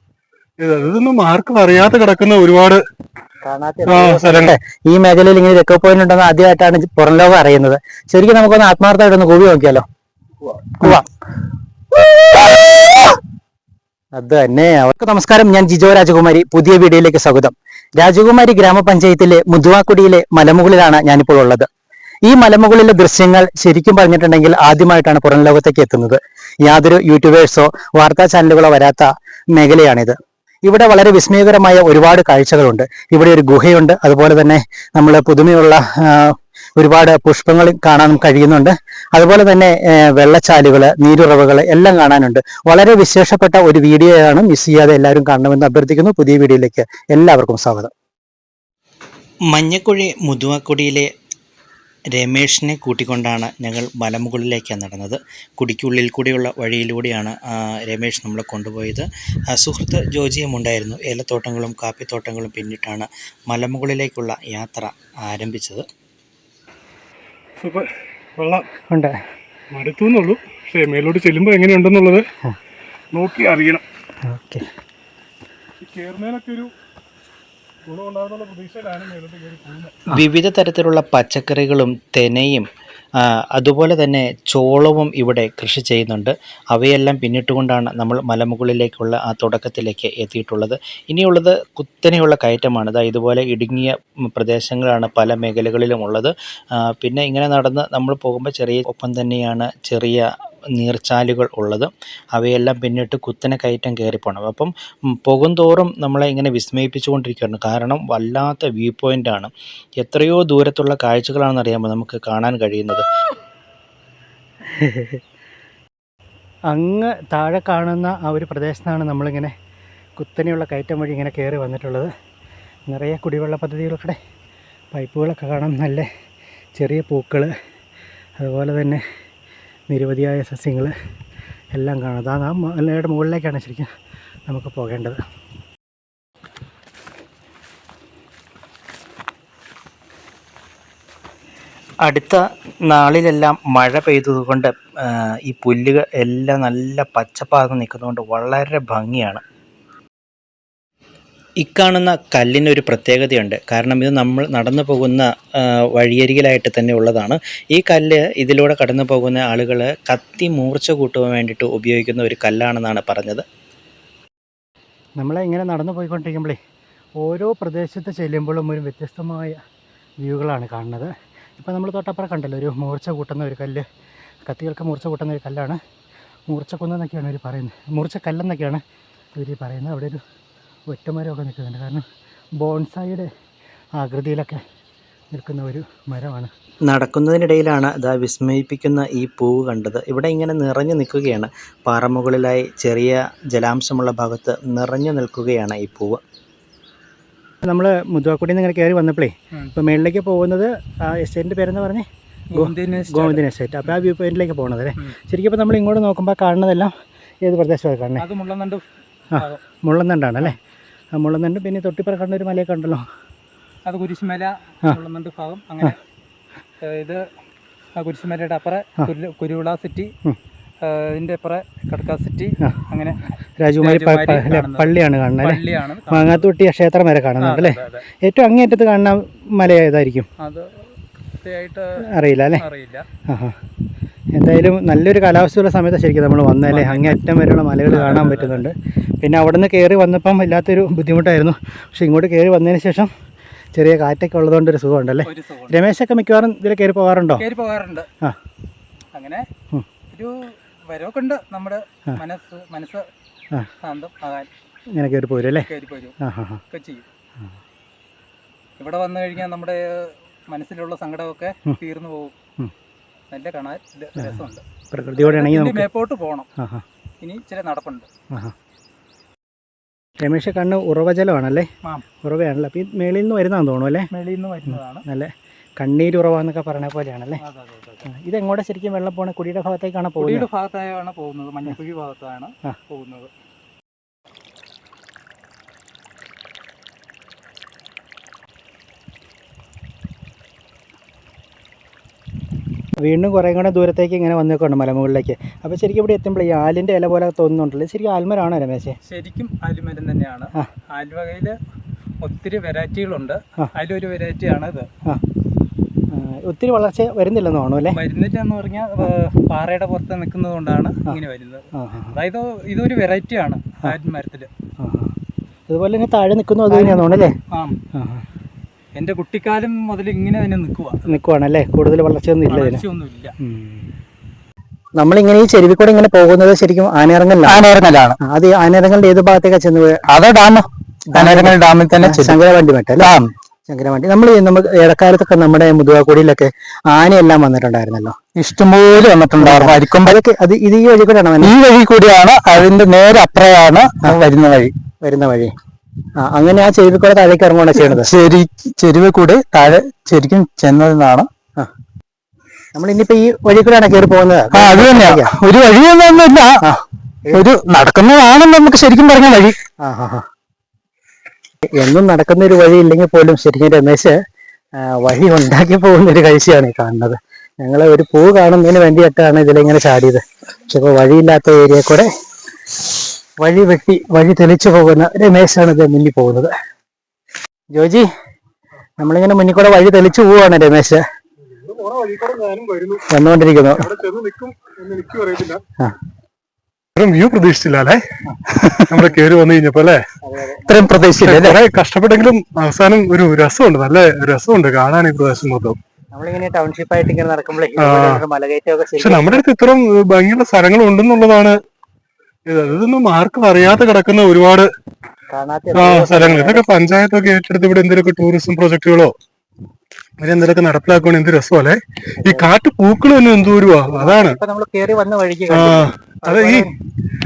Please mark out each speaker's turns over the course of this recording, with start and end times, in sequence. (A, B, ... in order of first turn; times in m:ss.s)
0:00.6-0:02.8 A
0:03.4-0:09.8 B
0:03.9-0:04.5 A
0:14.2-0:21.7 B
0:22.2-0:30.1 B
0:30.6-0:47.9 B
0:49.5-0:51.1 C
0:52.1-1:05.9 C
1:07.6-1:08.7 A
1:08.9-1:09.2 B
1:09.7-1:12.2 A
1:13.1-1:13.8 A
1:14.2-1:14.7 B
1:15.8-1:16.7 A
1:17.9-1:19.9 A
1:20.1-1:22.7 C
1:23.2-1:53.1 C
1:54.7-1:55.2 B
1:56.7-1:59.5 B
2:00.2-2:02.1 B
2:02.9-2:04.2 B
2:04.9-2:06.1 B
2:06.7-2:07.5 B
2:08.4-2:09.0 B
2:09.9-2:10.9 B
2:11.7-2:13.9 B
2:14.5-2:15.2 B
2:22.0-2:29.4 C
2:31.6-2:43.4 C
2:45.2-2:46.6 B
2:47.2-2:49.6 B
2:50.2-2:53.8 B
2:54.5-2:55.8 B
2:56.5-2:58.8 B
2:59.4-3:00.2 B
3:00.9-3:02.0 B
3:02.6-3:03.3 B
3:04.0-3:04.6 B
3:05.3-3:06.5 B
3:06.9-3:16.2 C
3:17.6-3:26.9 B
3:22.5-3:23.9 D
3:27.4-3:28.3 B
3:28.2-3:28.8 D
3:29.3-3:30.6 B
3:29.4-3:29.6 D
3:31.1-3:33.0 B
3:33.8-3:36.0 D
3:36.8-3:37.2 D
3:38.0-3:40.1 D
3:40.8-3:43.3 D
3:43.6-3:50.3 B
3:43.8-3:46.5 D
3:47.4-3:48.0 D
3:50.4-3:50.8 D
3:51.4-3:52.0 D
3:52.1-3:52.6 B
3:52.6-3:53.0 D
3:53.3-3:53.6 B
3:54.4-4:03.1 B
3:56.7-3:57.2 D
3:57.9-3:58.6 D
4:03.7-4:07.4 B
4:05.2-4:05.8 D
4:07.4-4:08.1 D
4:09.1-4:09.4 D
4:10.9-4:13.1 D
4:13.8-4:14.5 D
4:14.9-4:15.7 B
4:15.7-4:16.1 D
4:16.2-4:16.6 B
4:16.7-4:17.0 D
4:18.8-4:22.3 D
4:23.3-4:24.6 D
4:24.2-4:25.9 B
4:25.2-4:26.5 D
4:26.6-4:26.8 B
4:27.2-4:28.1 D
4:30.2-4:31.7 B
4:32.2-4:34.1 B
4:34.1-4:35.0 D
4:34.7-4:37.4 B
4:37.4-4:38.1 D
4:38.1-4:40.5 B
4:40.2-4:43.3 D
4:53.0-4:59.0 B
4:59.0-5:01.6 D
5:02.2-5:04.9 D
5:06.1-5:08.0 B
5:07.9-5:14.5 D
5:11.8-5:12.2 B
5:14.8-5:15.1 B
5:15.7-5:17.4 B
5:16.7-5:17.8 D
5:17.9-5:18.2 B
5:18.9-5:21.0 D
5:21.1-5:22.8 B
5:22.5-5:23.3 D
5:23.4-5:23.9 B
5:25.0-5:27.6 B
5:27.4-5:28.2 E
5:28.2-5:30.0 B
5:30.1-5:32.4 E
5:31.1-5:33.1 B
5:33.0-5:33.3 E
5:33.7-5:38.2 B
5:38.3-5:40.1 E
5:39.4-5:41.5 B
5:41.4-5:44.7 E
5:45.0-5:45.5 B
5:46.2-5:48.1 B
5:47.8-5:51.3 E
5:52.7-5:55.3 B
5:54.5-5:56.7 E
5:56.6-5:57.4 B
5:57.3-5:59.6 E
5:59.8-6:00.2 B
6:01.8-6:04.2 B
6:04.8-6:12.1 B
6:13.4-6:16.5 B
6:17.7-6:18.1 B
6:19.0-6:21.0 B
6:21.5-6:23.0 A
6:23.1-6:23.9 B
6:23.8-6:25.6 A
6:27.0-6:28.0 A
6:28.5-6:29.0 E
6:28.9-6:30.0 A
6:30.2-6:30.7 B
6:30.6-6:31.6 E
6:31.2-6:35.8 A
6:36.1-6:39.4 B
6:37.8-6:38.2 A
6:39.0-6:41.6 A
6:42.5-6:44.7 A
6:45.3-6:46.6 B
6:45.8-6:49.1 A
6:50.2-6:54.4 A
6:52.2-6:52.5 B
6:53.9-6:56.7 B
6:55.5-6:56.7 A